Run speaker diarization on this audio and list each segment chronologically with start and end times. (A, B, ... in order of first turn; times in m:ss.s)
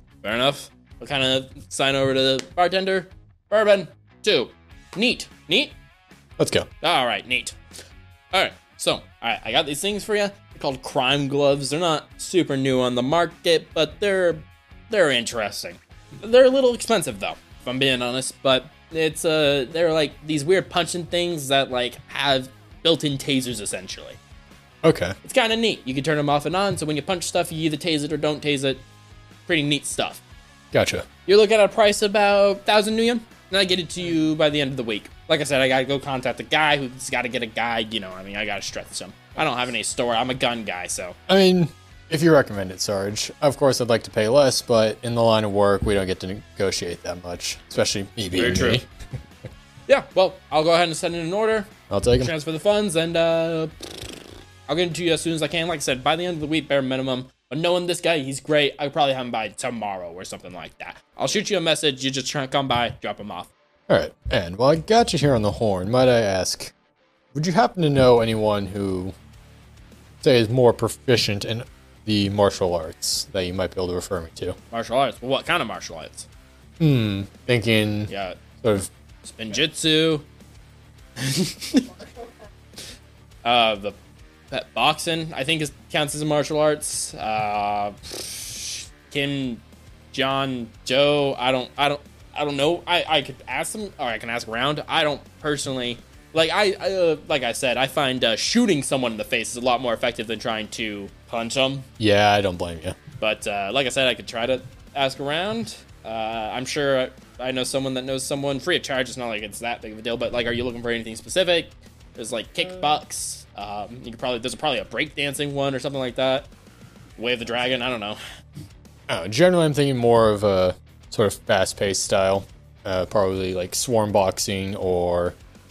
0:00.2-0:05.8 A
0:06.4-0:06.7 B
0:06.8-0:07.6 A
0:08.3-0:24.2 A
0:24.8-0:25.2 B
0:25.2-0:28.8 A
0:29.5-0:30.2 A
0:30.7-0:31.1 B
0:31.3-0:41.2 A
0:41.3-0:48.9 B
0:48.4-0:48.8 A
0:49.9-0:53.8 A
0:51.9-0:52.3 B
0:54.7-1:03.5 A
1:03.9-1:06.7 B
1:07.3-1:09.1 B
1:10.2-1:14.6 B
1:14.7-1:16.3 A
1:16.8-1:18.1 B
1:18.1-1:18.4 A
1:18.6-1:18.9 B
1:19.2-1:20.3 A
1:21.2-1:22.0 A
1:23.4-1:24.0 A
1:24.5-1:41.9 A
1:42.0-1:43.0 B
1:43.2-1:56.5 A
1:57.2-1:58.2 A
1:59.1-2:05.4 B